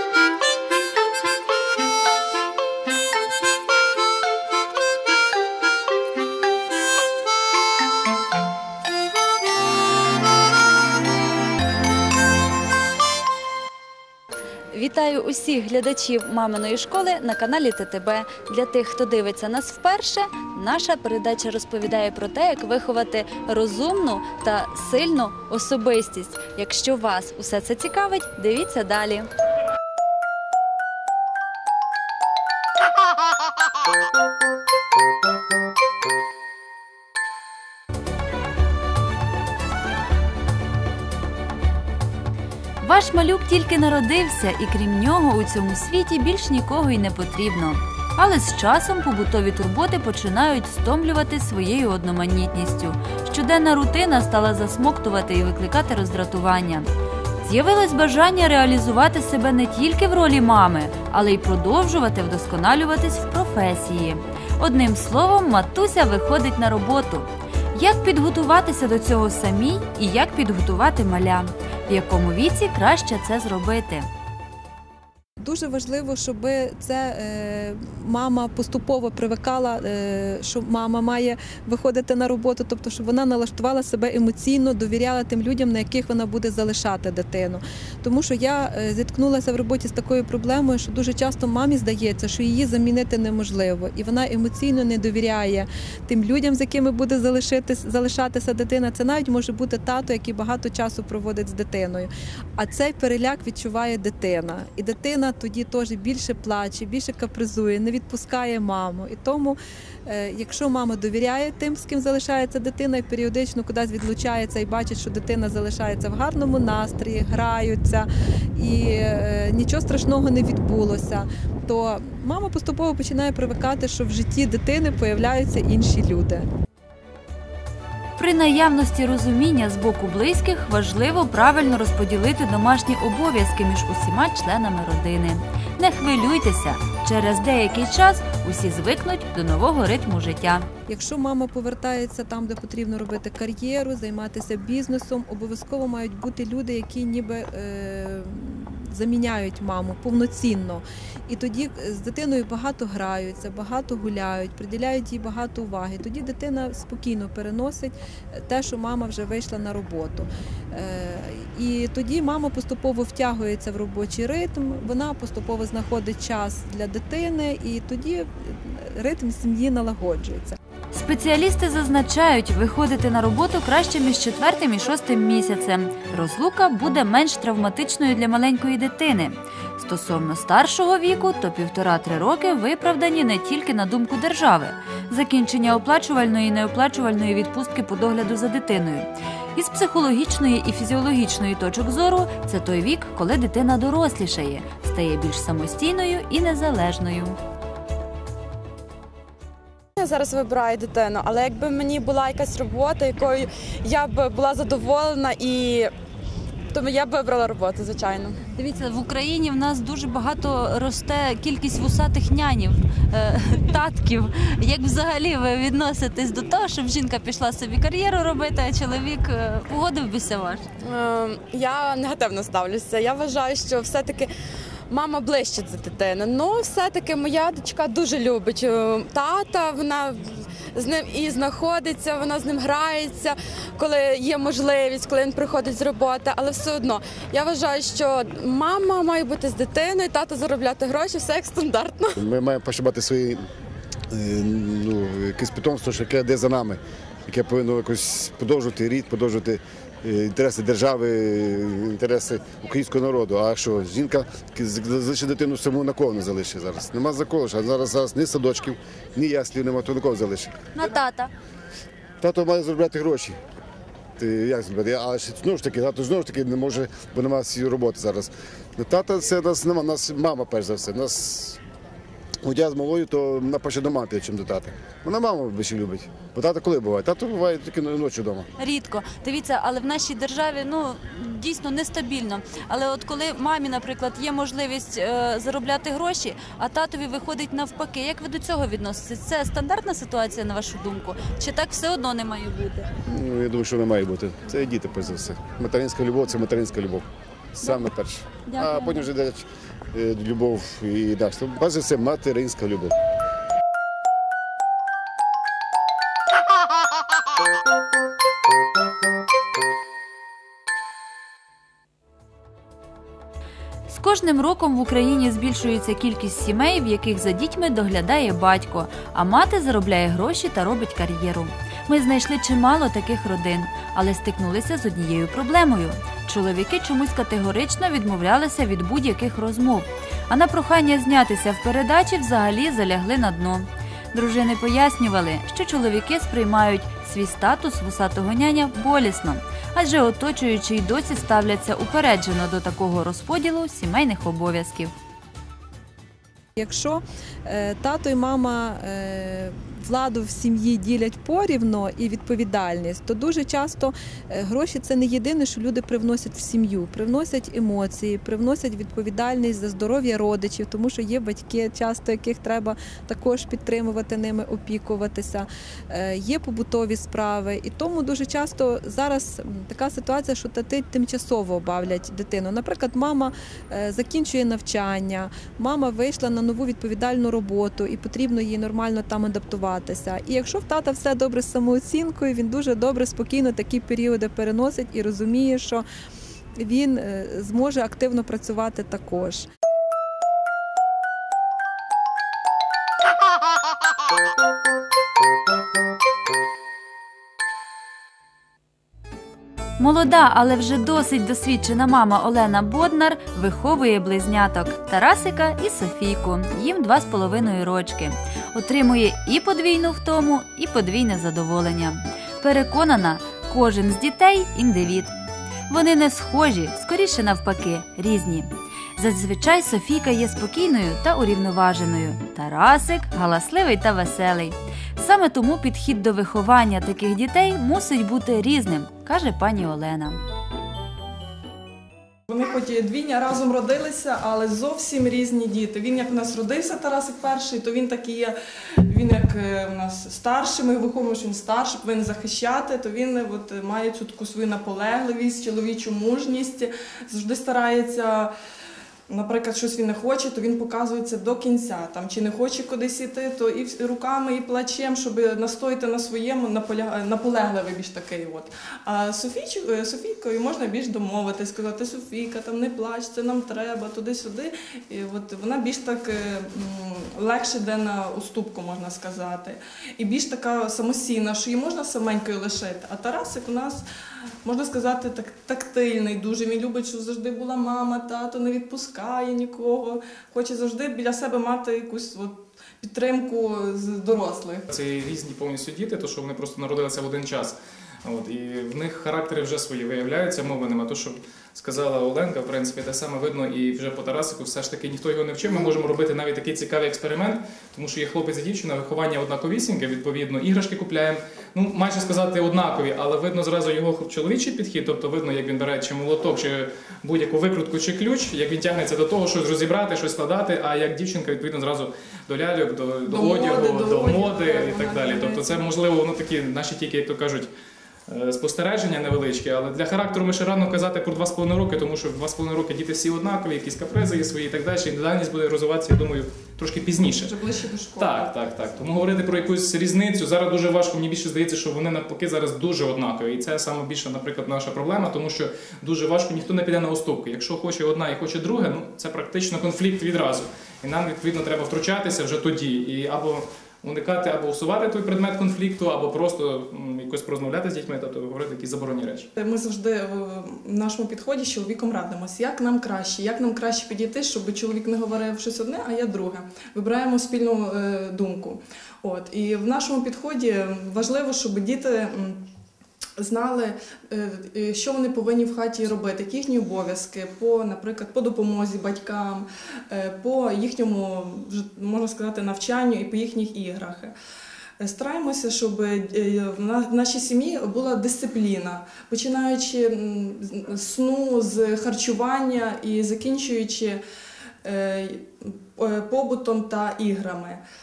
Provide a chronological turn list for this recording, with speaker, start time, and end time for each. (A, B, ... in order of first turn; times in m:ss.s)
0:14.7-0:29.3 A
0:42.8-0:56.9 A
0:57.4-1:14.1 A
1:15.4-2:06.5 B
2:08.2-2:20.7 A
2:20.9-2:50.6 B
2:50.9-3:17.4 A
3:20.0-3:25.9 C
3:26.7-3:28.3 C
3:28.5-3:40.6 A
3:40.8-3:44.3 C
3:44.9-3:50.2 C
3:50.8-4:02.2 C
4:02.2-4:03.4 D
4:04.1-4:20.5 D
4:20.8-4:21.3 A
4:22.2-4:23.4 D
4:24.2-4:31.6 D
4:32.4-4:38.4 D
4:38.6-4:52.9 A
4:53.2-4:57.0 D
4:57.6-5:02.9 D
4:57.6-4:57.9 A
4:58.5-4:59.1 A
5:13.9-5:44.9 A
5:46.6-6:25.8 B
6:26.6-6:29.4 B
6:39.8-6:55.2 A
6:55.7-7:10.2 A
7:12.3-7:18.4 E
7:18.9-7:28.3 E
7:29.1-7:53.8 E
7:54.4-8:04.6 E
8:04.7-8:37.5 F
8:33.1-8:35.7 E
8:38.1-8:47.4 F
8:47.1-8:48.4 E
8:47.9-9:09.3 F
9:09.4-9:22.5 E
9:23.2-9:34.1 E
9:34.8-9:44.0 E
9:44.6-9:47.6 E